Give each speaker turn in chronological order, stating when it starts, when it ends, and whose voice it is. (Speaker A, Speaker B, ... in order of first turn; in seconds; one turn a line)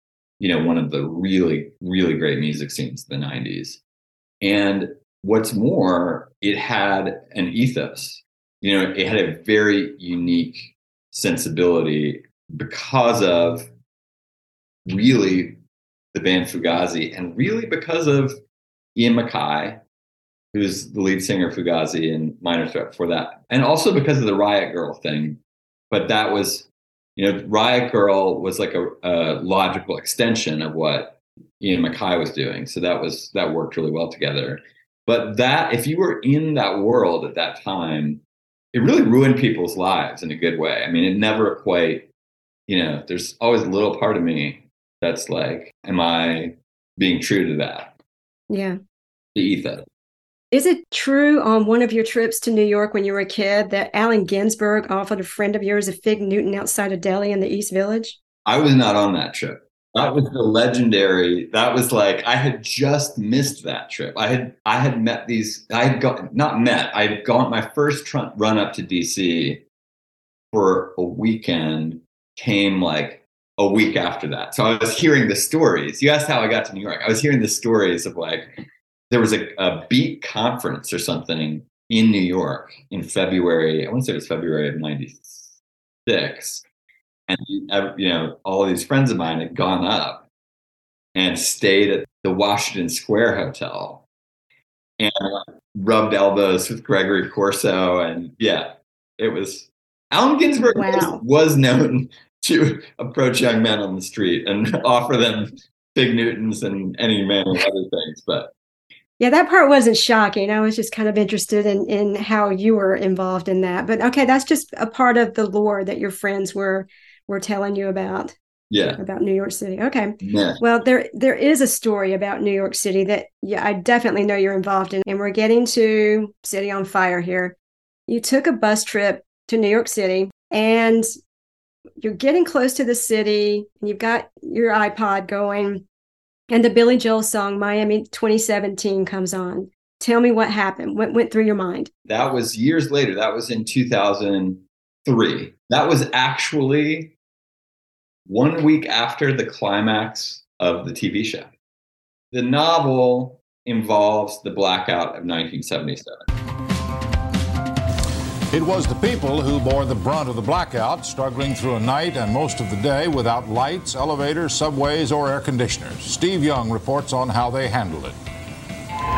Speaker A: 0.4-3.8
Speaker A: 4.4-13.7
Speaker A: 14.8-15.6
Speaker A: 16.1-18.4
Speaker A: 18.9-19.8
Speaker A: 20.5-25.4
Speaker A: 25.9-38.2
Speaker A: 38.7-42.1
Speaker A: 42.7-48.0
Speaker B: 48.5-48.8
Speaker A: 49.3-49.8
Speaker B: 50.5-58.2
Speaker A: 58.4-69.6
Speaker A: 70.5-78.5
Speaker A: 79.1-86.6
Speaker A: 87.3-90.3
Speaker A: 91.1-94.0
Speaker A: 95.0-108.5
Speaker B: 100.7-101.2
Speaker B: 109.2-118.3
Speaker A: 118.7-119.0
Speaker B: 119.0-127.5
Speaker A: 120.2-120.6
Speaker B: 128.1-131.1
Speaker B: 132.0-135.8
Speaker B: 136.5-141.9
Speaker A: 142.0-147.1
Speaker A: 148.2-151.5
Speaker A: 152.3-156.3
Speaker C: 158.5-168.2